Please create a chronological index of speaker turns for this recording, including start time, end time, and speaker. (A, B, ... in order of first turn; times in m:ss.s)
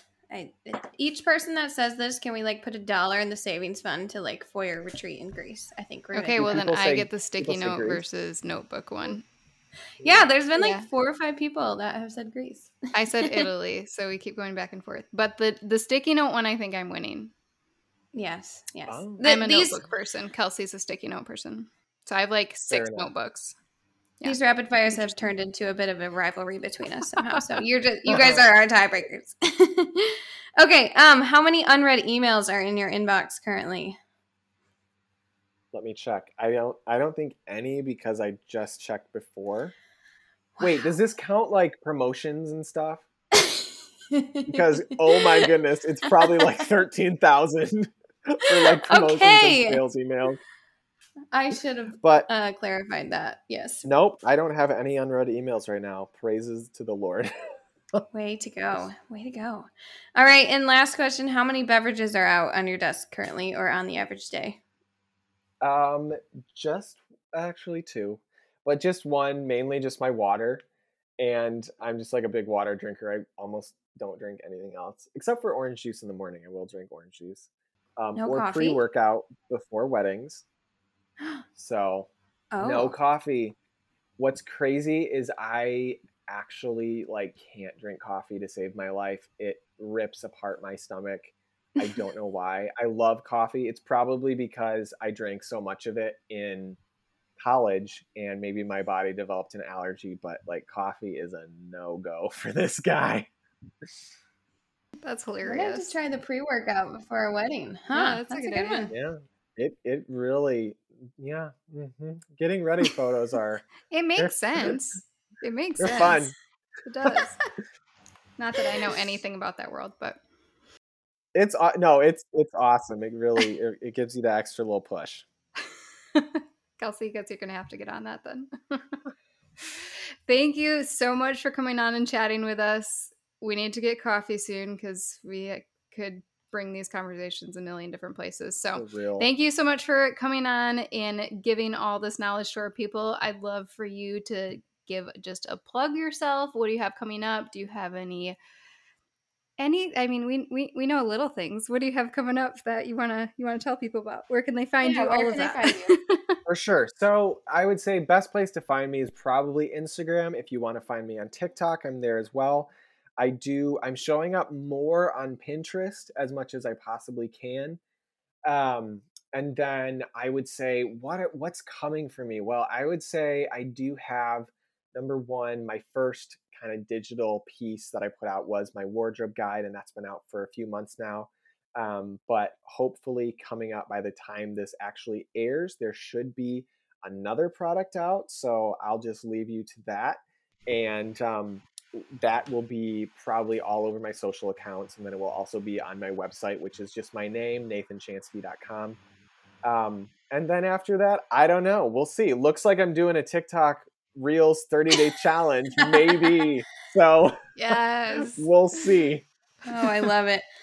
0:00.3-0:06.6 A
0:06.1-0:09.2 B
0:06.4-0:08.0 C
0:10.0-0:10.3 C
0:10.0-0:13.5 A
0:10.6-0:10.9 B
0:12.9-0:17.3 B
0:18.1-0:19.8 A
0:18.9-0:19.2 C
0:19.2-0:23.6 B
0:22.7-0:23.1 C
0:24.2-0:25.3 B
0:24.2-0:34.0 A
0:27.2-0:27.6 B
0:28.1-0:28.4 C
0:35.7-0:39.7 C
0:40.6-0:40.9 A
0:40.6-0:43.1 C
0:44.1-0:45.5 A
0:44.5-0:50.4 C
0:48.5-0:49.8 A
0:51.3-0:53.9 A
0:52.0-0:52.3 C
0:53.8-0:57.3 C
0:58.1-1:04.6 A
1:05.6-1:10.6 C
1:11.2-1:20.4 C
1:18.2-1:18.8 A
1:21.6-1:23.6 C
1:22.5-1:23.0 A
1:24.2-1:36.8 C
1:37.4-1:43.3 C
1:45.0-1:45.9 B
1:45.4-1:48.9 A
1:47.9-1:48.9 B
1:48.9-1:53.7 C
1:53.9-1:57.4 B
1:54.2-1:54.8 C
1:55.8-1:56.3 C
1:58.4-2:00.2 B
2:01.3-2:05.3 C
2:06.2-2:09.0 B
2:09.6-2:28.4 B
2:18.7-2:19.3 C
2:29.6-2:36.4 B
2:34.8-2:36.0 A
2:36.5-2:47.8 C
2:48.4-3:19.0 C
3:19.6-3:27.4 C
3:27.6-3:28.5 B
3:28.2-3:29.3 C
3:29.7-3:30.4 A